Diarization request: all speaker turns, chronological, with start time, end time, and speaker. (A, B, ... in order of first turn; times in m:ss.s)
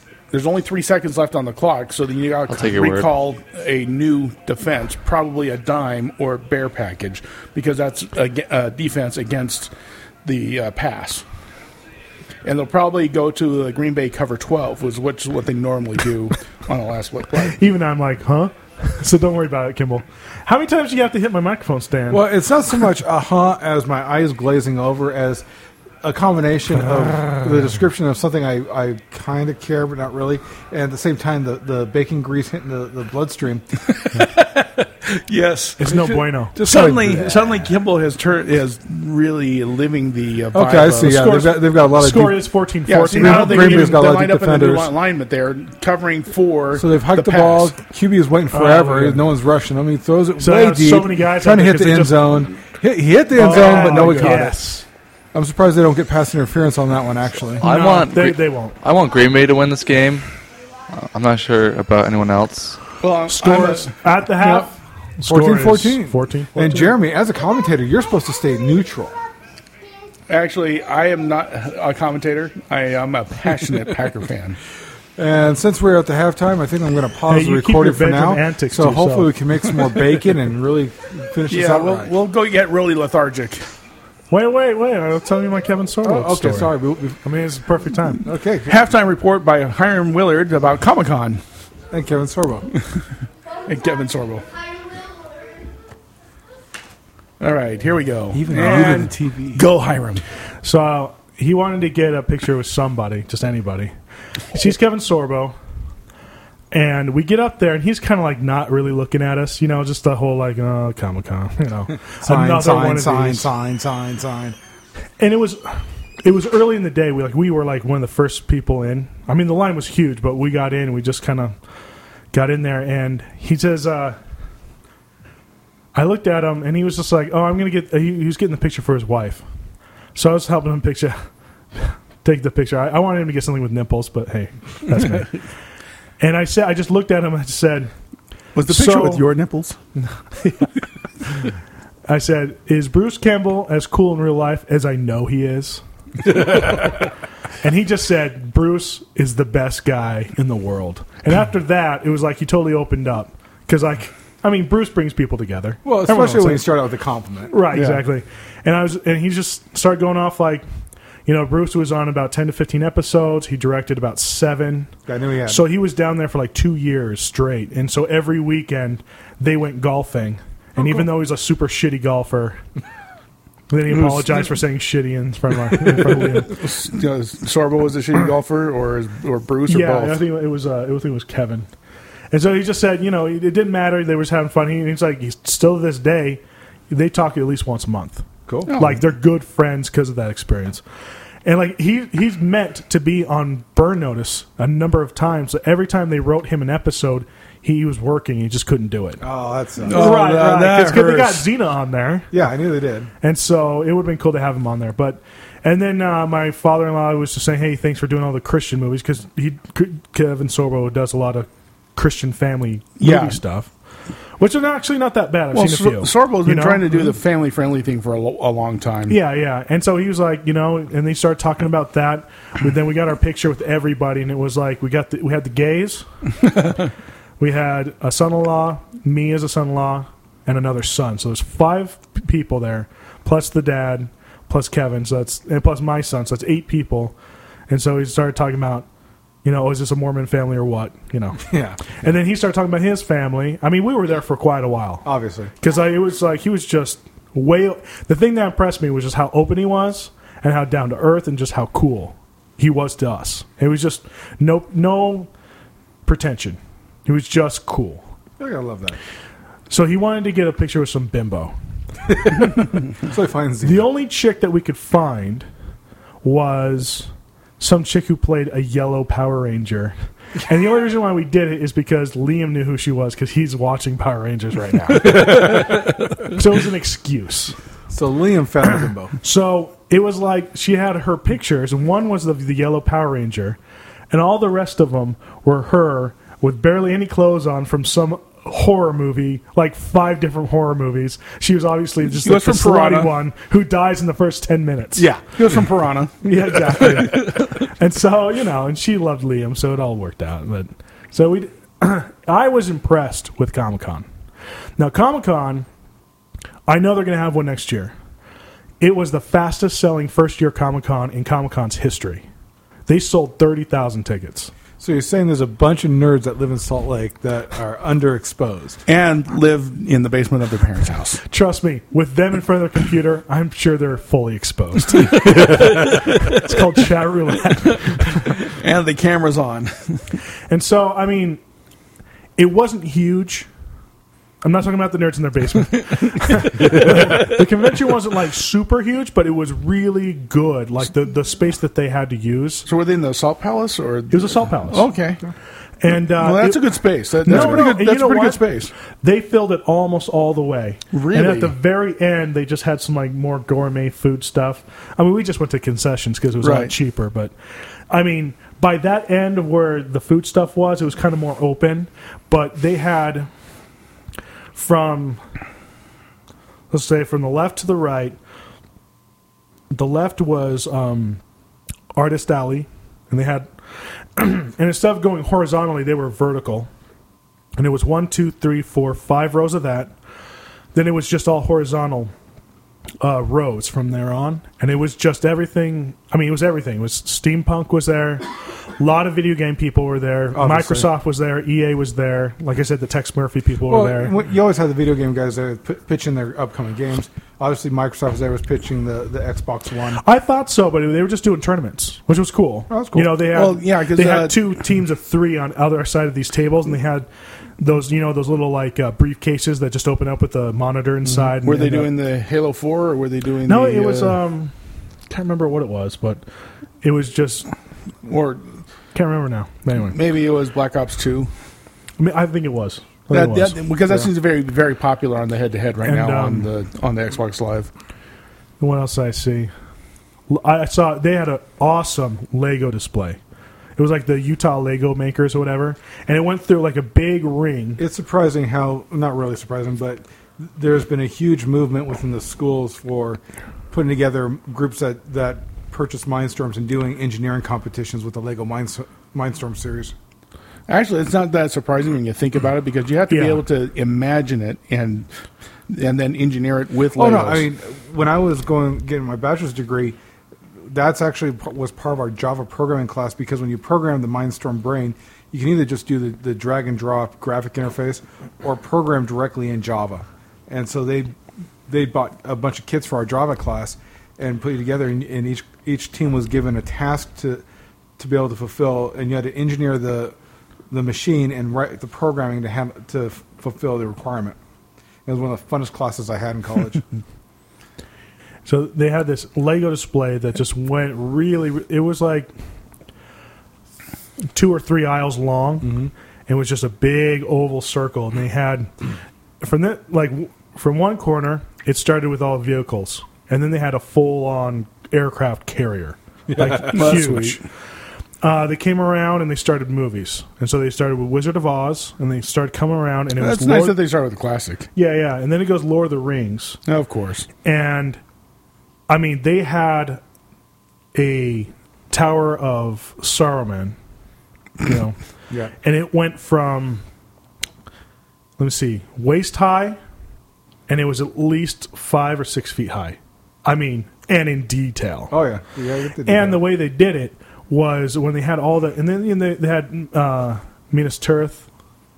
0:00.3-0:09.7 A
0:02.5-0:03.1 B
0:10.2-0:11.2 A
0:12.4-0:17.6 A
0:17.5-0:22.3 C
0:22.1-0:25.4 D
0:26.0-0:33.6 D
0:33.9-0:36.0 A
0:35.8-0:36.6 C
0:35.8-0:37.6 D
0:36.6-0:41.3 A
0:40.5-0:42.5 D
0:41.0-0:44.0 C
0:42.9-0:47.7 A
0:43.1-0:44.9 D
0:46.7-0:54.6 D
0:48.5-0:49.2 C
0:50.4-0:52.4 C
0:53.3-0:54.8 C
0:53.4-0:54.5 A
0:55.3-0:57.7 D
0:57.6-1:00.3 B
0:57.6-0:58.8 C
1:00.9-1:02.8 B
1:03.0-1:04.5 A
1:03.3-1:07.0 C
1:04.4-1:04.6 D
1:05.2-1:09.2 D
1:10.3-1:14.6 A
1:15.2-1:22.1 D
1:17.3-1:19.3 C
1:21.5-1:23.6 A
1:24.3-1:28.2 C
1:26.0-1:27.2 D
1:28.2-1:28.8 D
1:28.6-1:31.4 A
1:31.9-1:32.7 D
1:33.6-1:34.4 A
1:37.4-1:40.2 A
1:38.3-1:39.6 D
1:40.6-1:43.9 C
1:44.5-1:45.6 C
1:46.7-1:53.5 C
1:52.1-1:54.6 D
1:55.2-2:01.5 C
2:02.3-2:04.2 C
2:05.9-2:09.4 C
2:10.1-2:11.2 C
2:11.7-2:15.4 C
2:16.2-2:17.9 C
2:18.5-2:19.8 A
2:18.7-2:19.2 C
2:20.0-2:20.7 C
2:22.1-2:27.1 C
2:27.6-2:36.7 C
2:35.8-2:37.5 D
2:37.5-2:40.6 C
2:37.7-2:38.0 A
2:41.2-2:44.9 C
2:45.0-2:45.6 D
2:45.5-2:52.6 C
2:53.7-2:56.6 C
2:53.9-2:54.5 A
2:56.2-3:00.2 A
2:59.7-3:01.7 C
3:02.3-3:10.8 C
3:08.7-3:09.0 A
3:11.4-3:19.2 C
3:19.2-3:21.4 D
3:19.8-3:21.0 A
3:19.9-3:22.3 C
3:22.3-3:23.1 D
3:23.2-3:33.7 C
3:33.0-3:33.4 A
3:34.4-3:37.1 C
3:35.5-3:39.2 A
3:39.1-3:46.0 C
3:47.4-3:57.2 C
3:57.7-3:58.8 C
3:59.4-4:05.0 C
4:01.4-4:01.8 D
4:05.0-4:05.5 D
4:05.6-4:15.3 C
4:16.0-4:18.0 C
4:18.4-4:19.0 D
4:19.7-4:21.5 C
4:23.0-4:23.9 D
4:23.6-4:25.5 C
4:26.2-4:37.5 C
4:37.9-4:39.1 D
4:39.2-4:43.6 C
4:44.1-4:55.1 C
4:52.2-4:53.1 A
4:55.2-4:57.3 A
4:56.2-5:04.0 C
5:04.8-5:05.7 C
5:06.7-5:07.9 C
5:08.8-5:12.2 C
5:12.9-5:14.5 C
5:14.8-5:18.8 D
5:18.9-5:21.2 A
5:21.3-5:28.3 C
5:28.0-5:30.2 A
5:30.5-5:31.4 C
5:32.4-5:33.5 C
5:34.4-5:42.7 C
5:42.7-5:45.2 A
5:44.1-5:44.9 C
5:45.8-5:48.4 C
5:46.1-5:48.7 A
5:47.3-5:47.6 D
5:49.0-5:57.3 C
5:50.9-5:51.5 A
5:56.4-5:56.7 A
5:57.9-6:03.3 C
6:04.5-6:05.2 C
6:06.7-6:08.2 C
6:09.7-6:11.2 C
6:12.0-6:13.5 C
6:14.2-6:16.7 C
6:17.6-6:19.9 C
6:20.7-6:22.1 C
6:23.0-6:34.2 C
6:30.3-6:30.9 D
6:33.7-6:40.0 D
6:40.0-6:47.1 C
6:42.7-6:43.2 D
6:43.3-6:44.3 A
6:47.6-6:51.9 C
6:51.4-6:54.2 A
6:53.4-6:54.5 C
6:55.1-6:56.2 C
6:56.8-6:57.5 C
6:58.0-6:58.5 A
6:58.9-7:00.0 C
6:59.9-7:01.3 A
7:02.0-7:03.6 C
7:03.1-7:07.7 A
7:05.8-7:06.5 C
7:08.6-7:09.5 C
7:10.3-7:13.2 C
7:13.8-7:17.8 C
7:17.8-7:23.2 D
7:23.7-7:29.9 D
7:30.7-7:35.1 A
7:33.1-7:33.4 C
7:35.7-7:37.5 A
7:36.9-7:40.0 D
7:40.6-7:51.2 D
7:51.7-7:57.4 D
7:58.0-8:00.2 D
8:00.7-8:04.4 D
8:05.0-8:06.8 D
8:08.4-8:12.3 C
8:14.3-8:15.8 C
8:15.6-8:15.9 D
8:16.3-8:18.7 C
8:19.4-8:27.4 C
8:26.3-8:27.0 D
8:26.7-8:27.4 A
8:28.2-8:33.8 C
8:33.2-8:34.7 A
8:34.8-8:36.6 C
8:36.6-8:37.3 A
8:37.4-8:38.0 C
8:38.9-8:40.0 C
8:40.9-8:43.8 C
8:44.6-8:45.0 C
8:45.6-8:46.8 C
8:48.4-8:49.8 C
8:50.7-8:55.1 C
8:55.1-8:56.4 D
8:56.0-9:01.5 C